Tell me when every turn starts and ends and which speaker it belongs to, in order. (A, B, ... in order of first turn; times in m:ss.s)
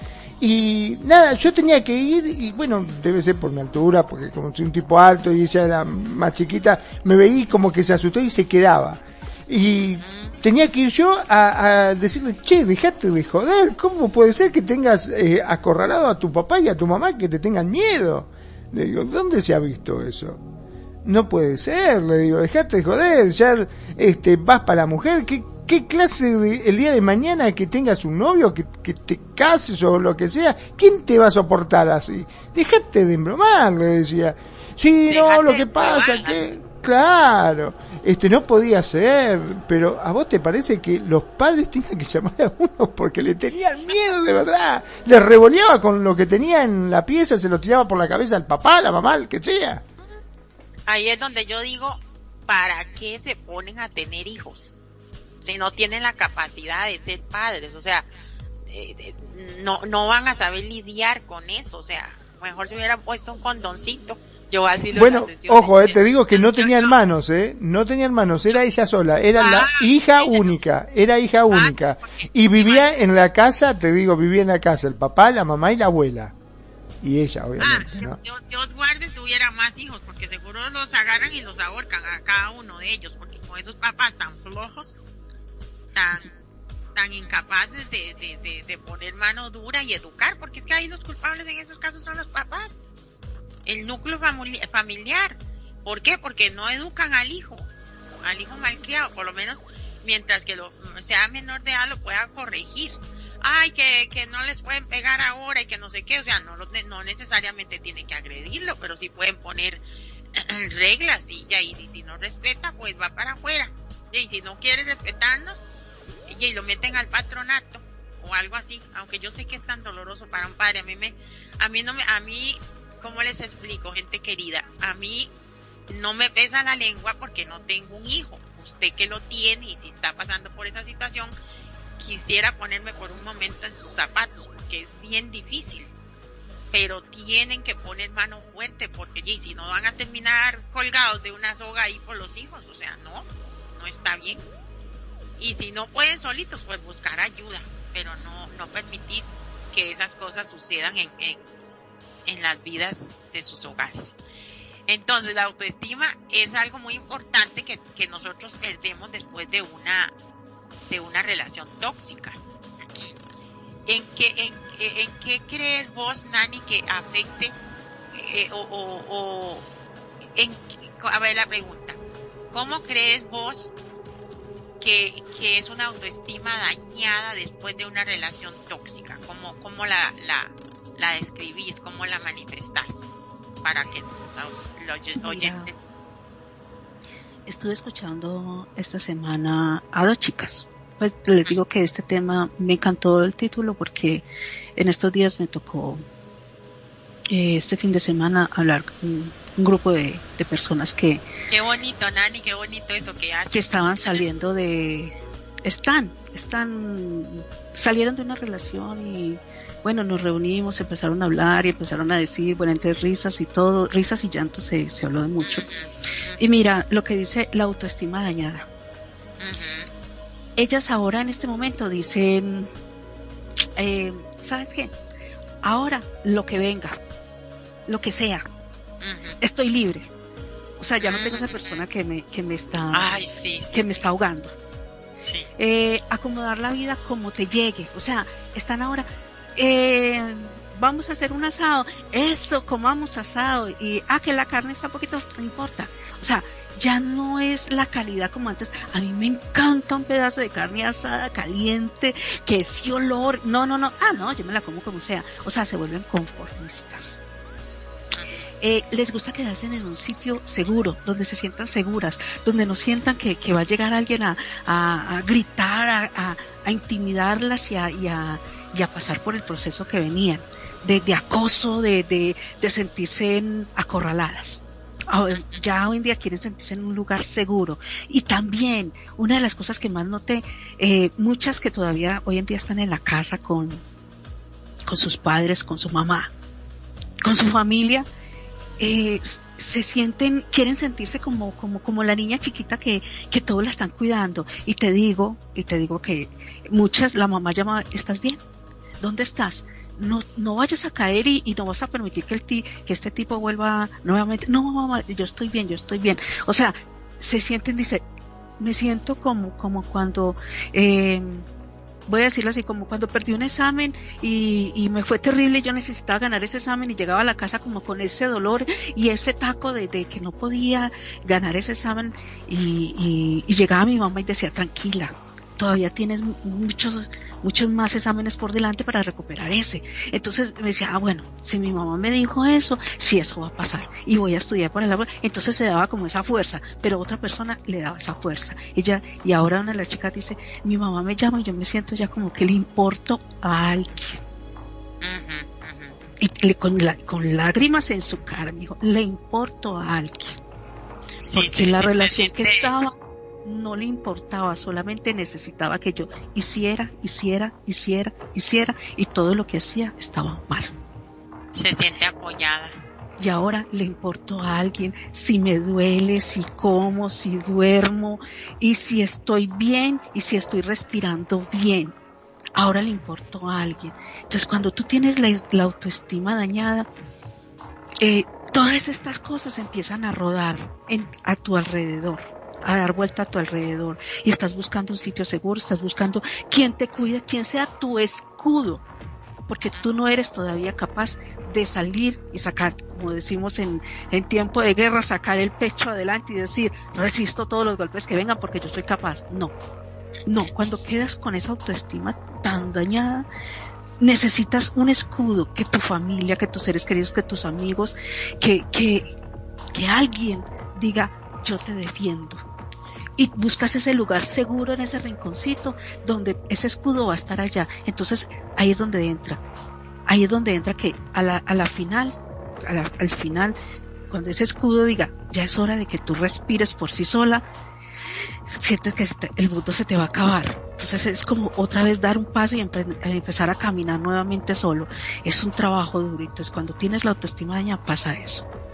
0:00.4-0:20.4 A
0:10.0-0:10.3 B
0:21.0-0:49.8 A
0:35.1-0:36.6 B
0:50.9-0:54.8 B
0:55.4-0:58.1 B
0:58.7-1:07.0 B
1:04.9-1:16.3 A
1:09.4-1:10.5 B
1:11.5-1:12.9 B
1:17.0-1:18.2 A
1:17.6-1:25.0 B
1:25.9-1:26.4 B
1:27.0-1:32.9 B
1:33.7-1:37.7 B
1:38.2-1:49.8 B
1:50.4-1:55.6 B
1:56.3-2:05.3 B
2:05.9-2:11.3 B
2:12.0-2:15.9 B
2:16.7-2:23.2 B
2:23.8-2:24.4 B
2:25.4-2:31.4 B
2:32.3-2:34.1 B
2:34.9-2:40.1 B
2:40.9-2:42.4 B
2:43.9-2:47.6 B
2:48.1-2:49.6 B
2:50.4-2:52.0 B
2:52.5-2:53.7 B
2:54.8-3:03.1 B
3:03.6-3:05.8 B
3:05.2-3:05.7 C
3:07.4-3:14.3 C
3:14.8-3:16.0 C
3:17.3-3:21.2 C
3:21.5-3:24.2 B
3:23.5-3:35.7 C
3:35.4-3:36.4 B
3:36.4-3:38.7 C
3:39.4-3:39.9 B
3:40.6-3:42.7 C
3:43.8-3:44.9 C
3:45.6-3:47.0 C
3:47.9-3:48.4 C
3:49.0-3:49.4 B
3:49.4-3:50.1 C
3:50.8-3:53.1 C
3:51.0-3:51.8 B
3:52.9-3:54.0 B
3:53.7-3:54.5 C
3:55.2-3:55.5 B
3:55.6-4:17.2 C
4:18.1-4:18.4 B
4:18.6-4:43.8 C
4:35.3-4:35.6 B
4:44.8-4:46.3 C
4:47.2-4:48.1 C
4:48.8-4:58.4 C
4:59.0-5:08.0 C
5:08.6-5:11.4 C
5:12.1-5:44.2 C
5:45.0-5:46.0 B
5:46.2-5:50.4 C
5:51.2-5:52.7 B
5:51.3-6:00.7 C
6:01.5-6:02.7 B
6:03.2-6:12.0 C
6:12.6-6:16.9 C
6:18.0-6:28.8 C
6:29.5-6:39.5 C
6:40.3-6:43.3 C
6:44.0-6:49.1 C
6:49.7-6:52.4 C
6:53.2-6:59.4 C
7:00.1-7:03.6 C
7:04.1-7:07.4 C
7:08.6-7:18.4 C